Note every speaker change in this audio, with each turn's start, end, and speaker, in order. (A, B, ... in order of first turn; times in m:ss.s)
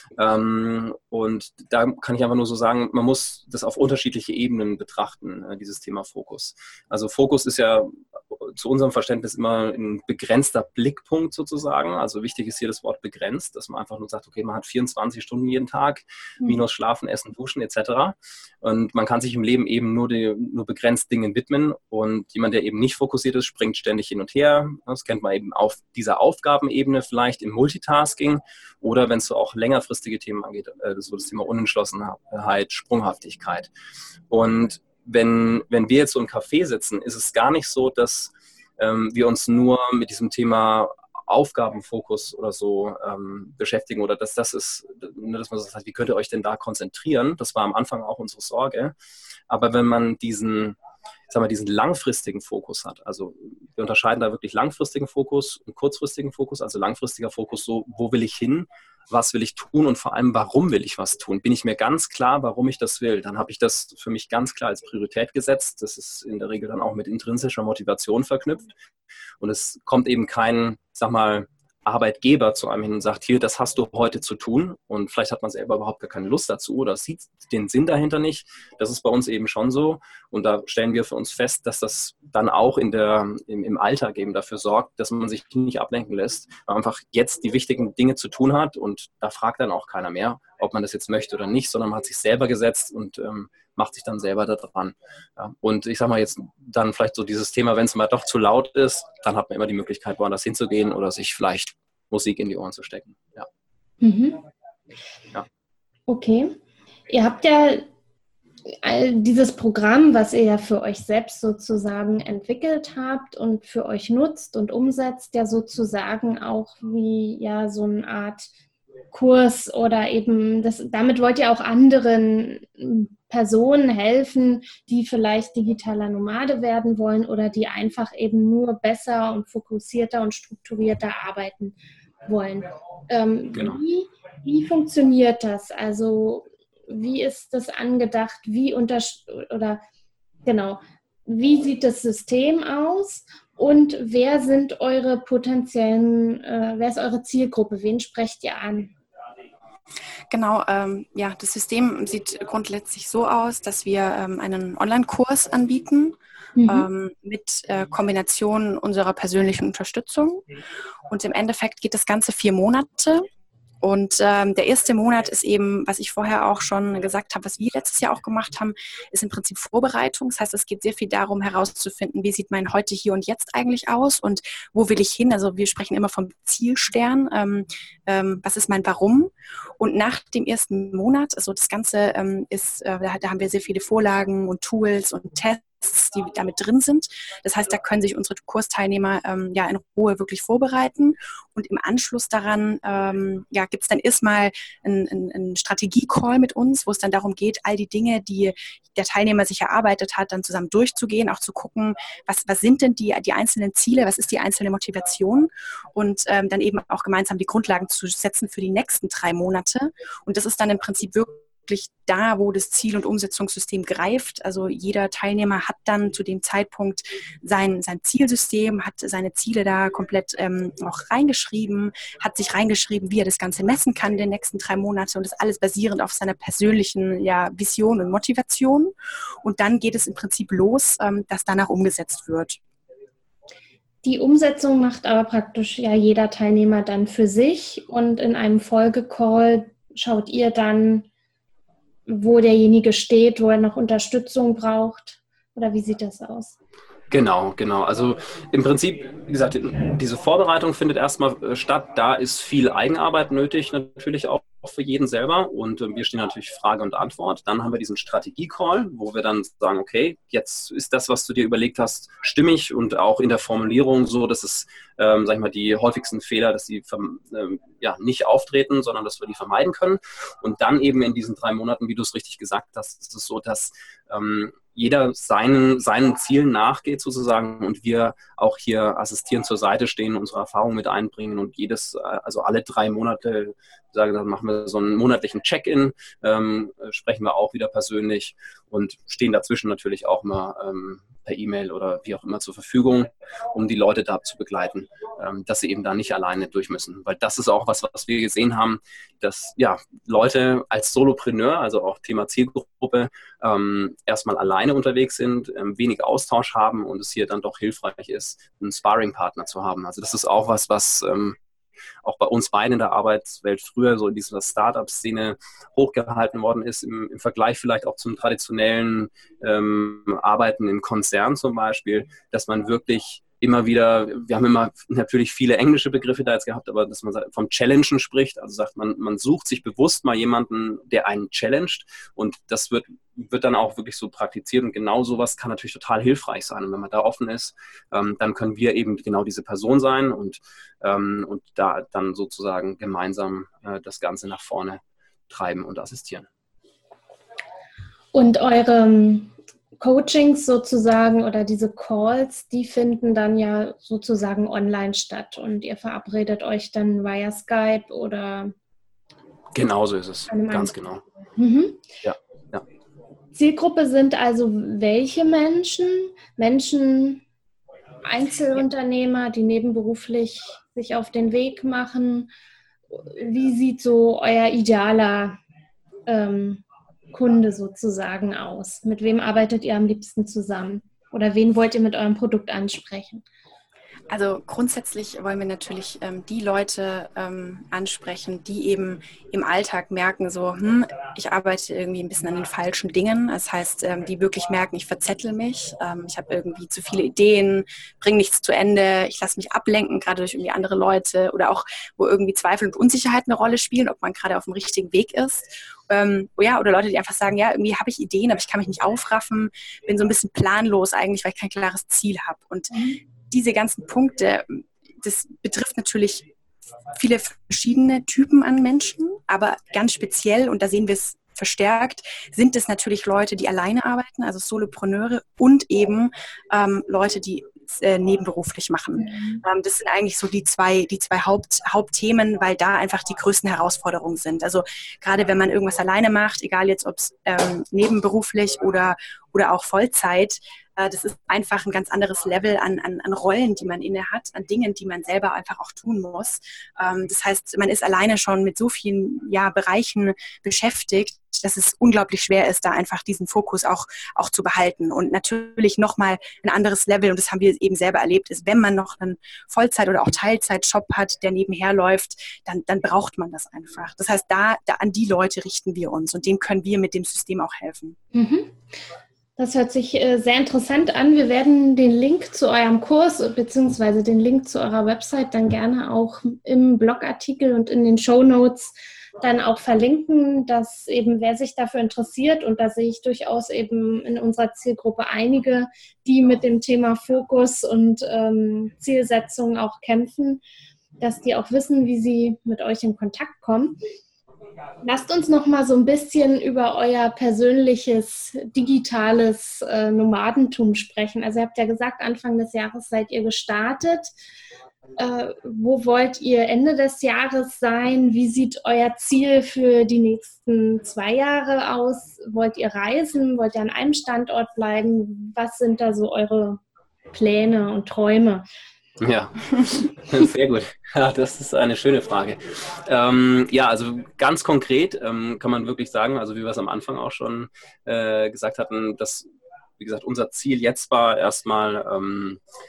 0:00.2-0:33.7 A
0:34.3-0:48.9 A
0:49.5-0:50.8 A
0:51.3-1:08.7 A
1:09.4-1:43.5 A
1:44.0-1:44.4 B
1:46.1-1:46.6 B
1:47.1-1:47.9 B
1:48.7-1:58.5 B
1:59.1-2:19.8 B
2:13.5-2:13.8 A
2:20.4-2:29.0 B
2:30.3-2:40.4 C
2:36.6-2:36.9 B
2:41.1-2:43.3 C
2:43.8-3:52.6 C
3:54.0-4:01.1 B
4:02.1-4:06.6 B
4:07.1-5:11.4 A
5:12.0-5:46.3 A
5:48.1-5:58.5 B
5:59.5-6:01.0 A
6:00.3-6:00.7 B
6:01.4-6:01.8 B
6:02.0-6:02.6 A
6:03.3-6:07.2 B
6:08.0-6:12.3 B
6:12.9-6:15.4 B
6:16.1-6:23.2 B
6:24.1-6:52.8 C
6:52.7-6:53.0 B
6:53.3-6:56.3 C
6:56.9-7:48.0 C
7:09.0-7:09.4 B
7:48.1-7:48.6 B
7:49.4-8:10.4 B
8:11.0-8:13.8 B
8:14.8-8:24.1 B
8:25.0-8:36.6 B
8:37.1-8:38.4 B
8:39.0-8:49.3 A
8:49.8-8:52.4 A